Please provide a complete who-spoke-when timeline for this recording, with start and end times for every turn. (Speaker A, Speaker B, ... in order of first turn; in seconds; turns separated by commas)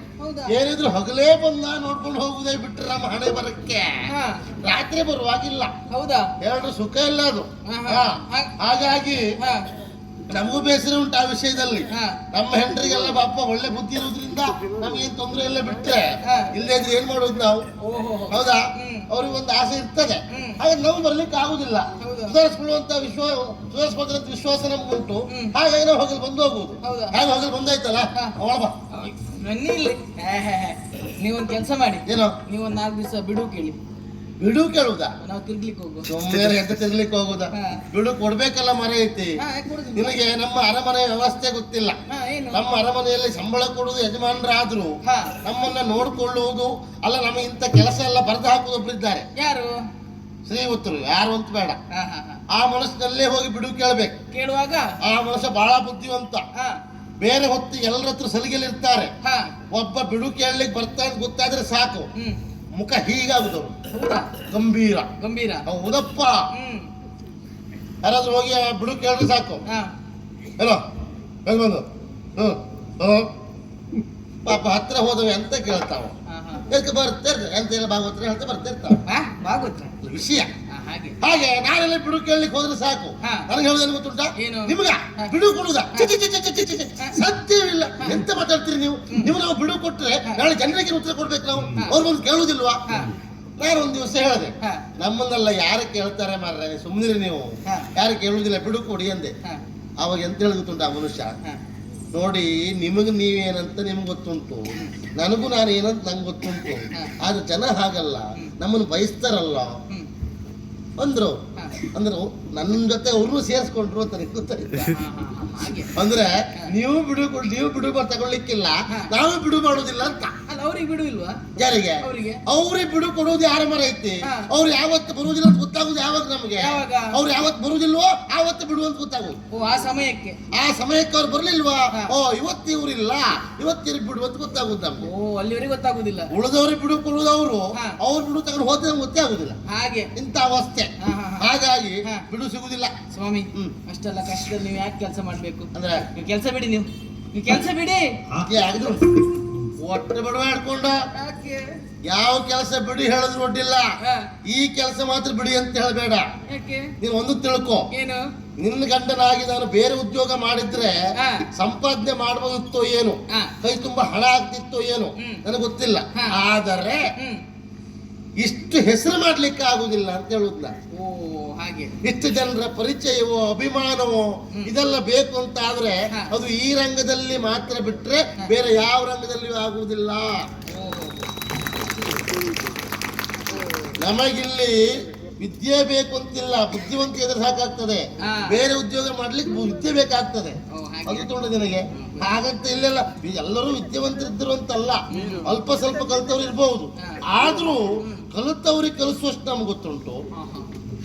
Speaker A: 0.2-0.6, Speaker B: 0.5-3.9, Speaker A: 4.1-4.5, Speaker B: 4.6-5.7, Speaker A: 5.9-6.3, Speaker B: 6.4-9.3, Speaker A: 7.7-8.5, Speaker A: 9.4-9.7, Speaker B: 10.3-17.7, Speaker A: 11.9-12.2, Speaker A: 16.2-16.5, Speaker A: 17.8-19.1, Speaker B: 18.3-28.8, Speaker A: 20.3-20.6, Speaker A: 22.0-22.4, Speaker A: 26.8-27.2, Speaker A: 28.9-33.8, Speaker B: 32.1-32.4, Speaker B: 34.4-35.1, Speaker A: 35.2-36.1, Speaker B: 36.1-39.4, Speaker A: 37.6-37.8, Speaker A: 39.4-40.1, Speaker B: 39.9-42.0, Speaker A: 42.1-42.6, Speaker B: 42.5-49.3, Speaker A: 45.0-45.4, Speaker A: 49.4-49.8, Speaker B: 50.5-51.8, Speaker A: 51.9-52.4, Speaker B: 52.5-54.1, Speaker A: 54.3-55.0, Speaker B: 55.0-56.5, Speaker B: 57.2-59.1, Speaker A: 59.2-59.5, Speaker B: 59.7-62.1, Speaker B: 62.8-63.8, Speaker A: 63.9-64.4, Speaker B: 64.4-65.1, Speaker A: 65.2-65.7, Speaker B: 65.7-66.4, Speaker A: 66.5-66.9, Speaker B: 68.0-69.6, Speaker B: 71.5-71.9, Speaker B: 72.4-73.3, Speaker B: 74.5-76.1, Speaker A: 76.3-76.7, Speaker B: 76.7-79.0, Speaker A: 79.0-79.9, Speaker B: 80.0-80.5, Speaker A: 80.7-81.2, Speaker B: 81.2-92.8, Speaker A: 83.2-83.5, Speaker A: 84.4-85.3, Speaker A: 89.1-89.3, Speaker A: 92.9-93.2, Speaker B: 93.6-99.3, Speaker B: 100.0-101.3, Speaker B: 102.1-109.8, Speaker B: 111.0-115.0, Speaker A: 111.6-111.8, Speaker A: 114.9-115.9, Speaker B: 115.9-120.3, Speaker A: 120.5-121.5, Speaker B: 121.6-129.4, Speaker A: 122.0-122.4, Speaker A: 124.2-124.5, Speaker A: 126.6-127.2, Speaker A: 129.5-130.4, Speaker B: 130.5-135.1, Speaker A: 135.0-136.3, Speaker B: 136.3-139.6, Speaker A: 139.7-140.1, Speaker B: 140.2-140.9, Speaker A: 141.0-141.5, Speaker B: 141.4-142.9, Speaker A: 143.1-148.1, Speaker B: 145.7-146.1, Speaker B: 148.4-149.1, Speaker B: 149.8-151.0, Speaker A: 151.2-151.7, Speaker B: 152.1-153.9, Speaker A: 154.0-154.3, Speaker B: 154.4-156.3, Speaker A: 156.5-156.9, Speaker B: 157.0-157.8, Speaker A: 157.9-158.2, Speaker B: 158.6-160.9, Speaker A: 161.2-161.5, Speaker B: 161.5-167.0, Speaker A: 165.2-165.4, Speaker A: 167.2-167.4, Speaker B: 168.4-170.7, Speaker A: 170.9-171.9, Speaker B: 172.0-180.5, Speaker A: 180.7-181.2, Speaker B: 184.0-200.2, Speaker A: 188.2-188.6, Speaker A: 190.7-191.3, Speaker A: 191.9-192.3, Speaker A: 195.1-195.6, Speaker A: 198.0-198.3, Speaker A: 200.3-200.7